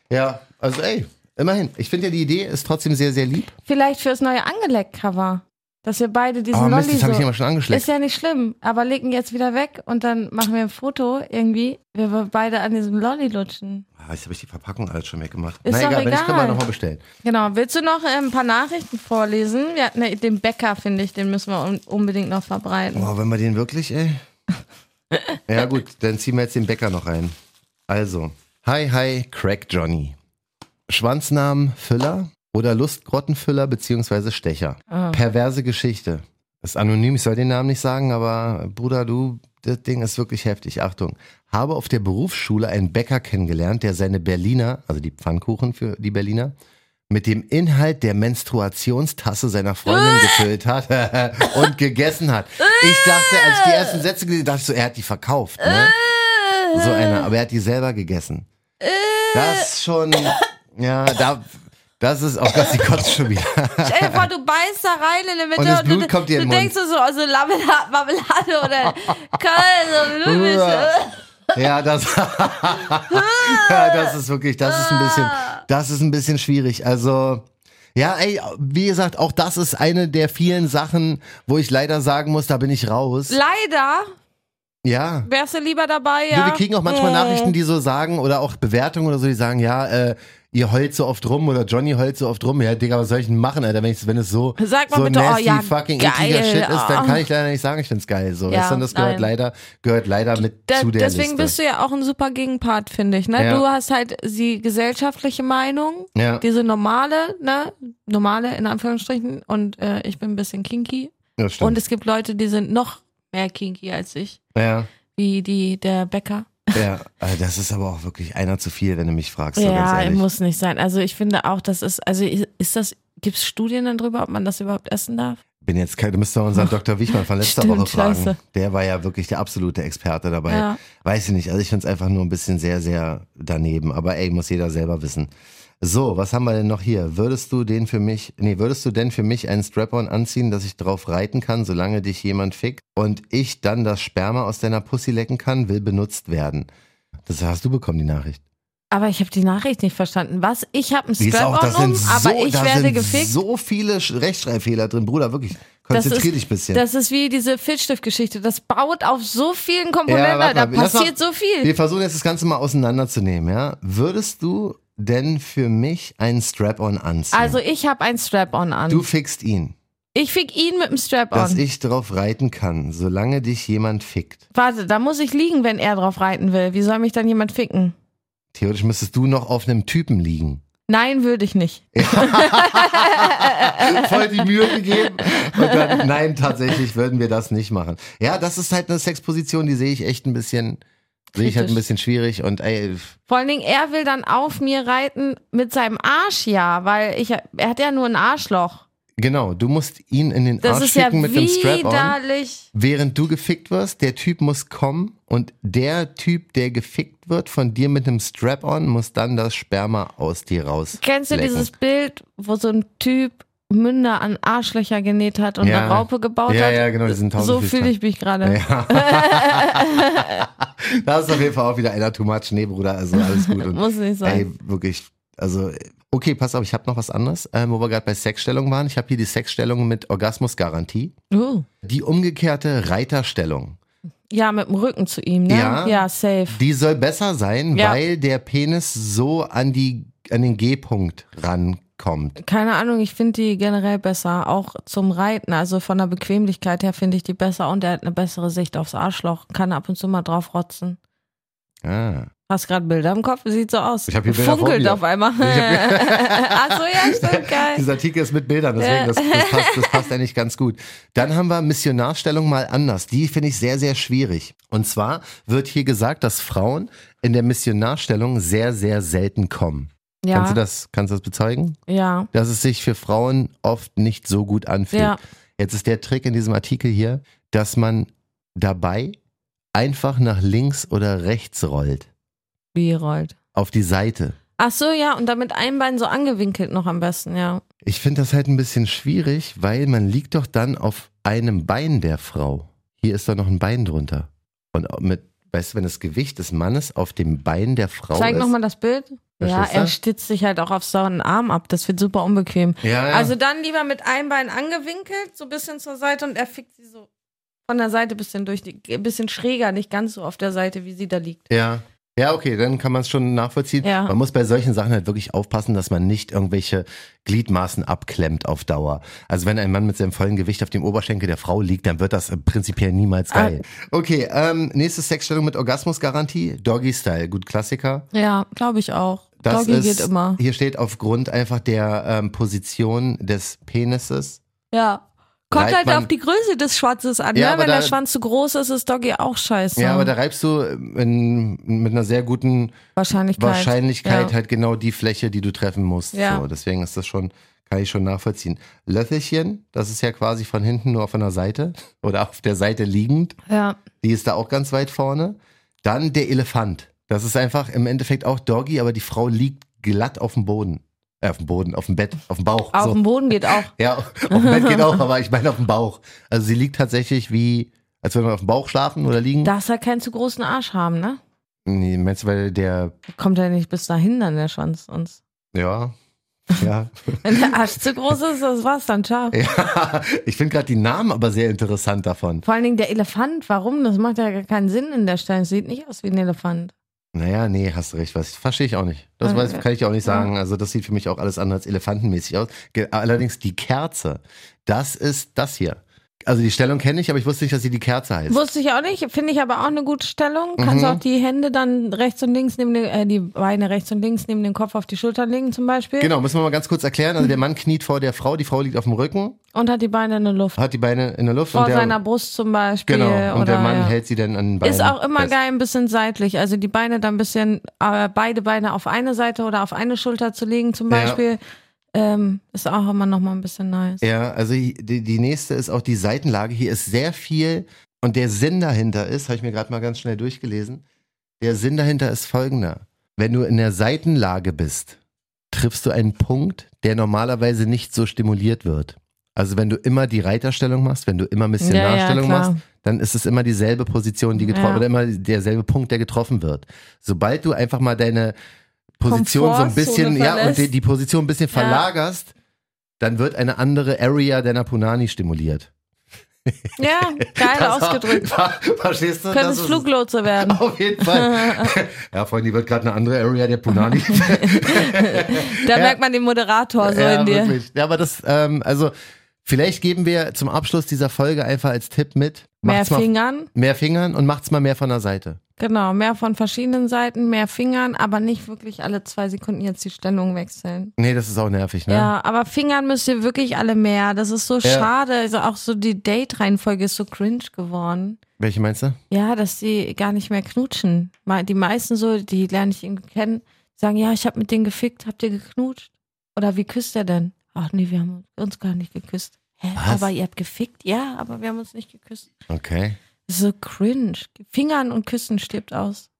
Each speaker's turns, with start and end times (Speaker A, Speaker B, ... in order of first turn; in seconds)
Speaker A: 0.1-3.5, 6.5-7.9, 14.0-17.0, 22.9-24.2, 25.5-27.3, 27.9-30.1, 30.9-46.5, 47.1-55.9, 56.7-58.5, 59.3-64.3, 65.5-66.7, 70.1-70.9, 71.5-83.4, 84.8-85.3, 86.3-101.5, 103.4-103.6, 106.2-106.4, 111.4-111.8, 114.5-114.9, 116.7-120.2, 125.6-135.3, 135.8-146.7, 147.2-148.4, 151.2-156.8, 160.1-167.6, 168.9-169.8, 171.3-174.4, 178.5-180.6, 181.9-190.8, 191.3-193.2, 199.2-202.2, 202.7-211.7, 215.6-231.1, 231.8-233.8, 235.5-242.4, 251.8-252.3, 254.1-271.8, 272.3-279.1, 279.7-282.1, 283.5-284.4, 287.8-298.5, 299.4-299.9, 302.8-303.3, 311.5-328.1, 329.4-334.4, 335.5-336.1, 337.3-338.0, 339.8-342.8, 343.4-353.4, 354.0-369.5, 371.6-372.9, 375.5-375.9, 376.5-377.5, 379.3-382.4, 387.1-398.4, 400.6-401.0, 406.0-409.4, 410.6-412.0, 412.9-415.3, 420.9-421.2, 424.0-430.8, 431.4-435.0, 435.5-448.4, 449.0-452.3, 453.0-455.7, 456.4-459.9, 460.4-466.0, 466.8-468.9, 469.4-475.4, 481.0-482.1, 488.4-489.0, 499.8-500.1, 502.5-503.0
Speaker B: 3.6-13.8, 15.6-16.6, 17.2-23.1, 34.9-35.2, 49.9-50.5, 52.6-54.0, 55.6-57.2, 58.8-59.7, 63.8-71.2, 73.1-75.6, 83.3-84.1, 85.2-87.5, 94.6-97.2, 98.5-99.3, 100.7-114.4, 115.1-116.8, 119.5-125.4, 127.4-128.4, 130.5-130.8, 148.9-153.4, 155.9-161.7, 167.3-169.0, 170.1-171.6, 174.5-177.9, 180.9-184.2, 185.0-186.0, 191.3-191.8, 193.3-198.8, 200.6-202.7, 211.0-220.4, 223.1-224.5, 231.3-231.7, 234.3-236.6, 242.4-251.0, 252.5-257.8, 258.8-260.1, 270.2-270.6, 271.9-272.3, 274.9-275.2, 282.7-283.3, 284.6-287.6, 298.1-307.1, 307.7-311.4, 313.8-314.1, 323.3-323.6, 328.1-330.4, 334.7-340.1, 342.9-344.3, 346.1-346.4, 353.5-353.8, 362.7-363.7, 364.3-365.0, 369.4-371.2, 373.1-375.2, 377.2-379.4, 382.4-386.7, 389.2-390.3, 398.3-406.1, 409.5-410.6, 411.5-413.9, 414.6-421.4, 421.9-424.0, 441.6-442.6, 444.4-444.8, 449.1-450.7, 451.5-451.8, 456.8-458.3, 459.3-461.7, 463.9-467.6, 472.6-473.5, 475.6-480.9, 481.9-488.2, 489.1-502.3, 503.3-506.1